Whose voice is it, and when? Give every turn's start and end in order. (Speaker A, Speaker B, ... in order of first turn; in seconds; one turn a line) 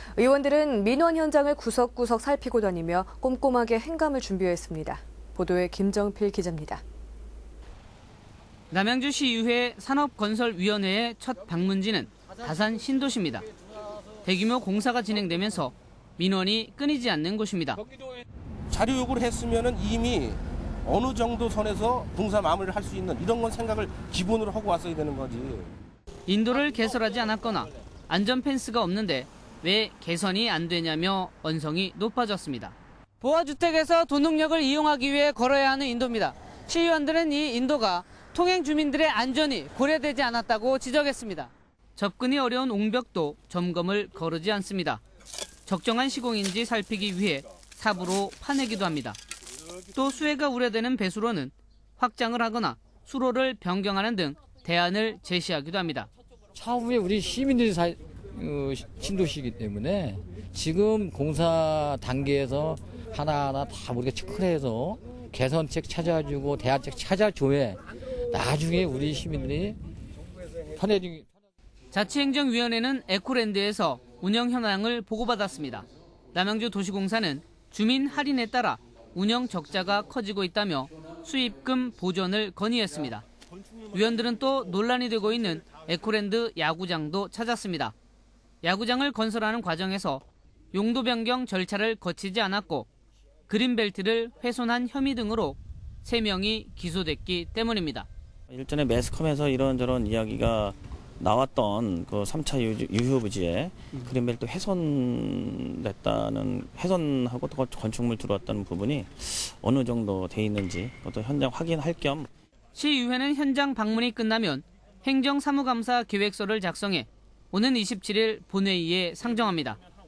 Speaker A: 0.2-6.8
Speaker B: 8.7-13.5
Speaker B: 14.2-17.8
Speaker C: 18.7-25.7
Speaker B: 26.3-45.0
Speaker B: 45.7-49.2
Speaker B: 50.0-56.1
Speaker D: 56.5-69.8
Speaker D: 70.8-71.3
Speaker B: 71.9-83.2
Speaker B: 83.9-88.0
Speaker B: 88.6-92.9
Speaker B: 93.5-98.1
Speaker E: 98.5-112.3
Speaker B: 112.8-119.8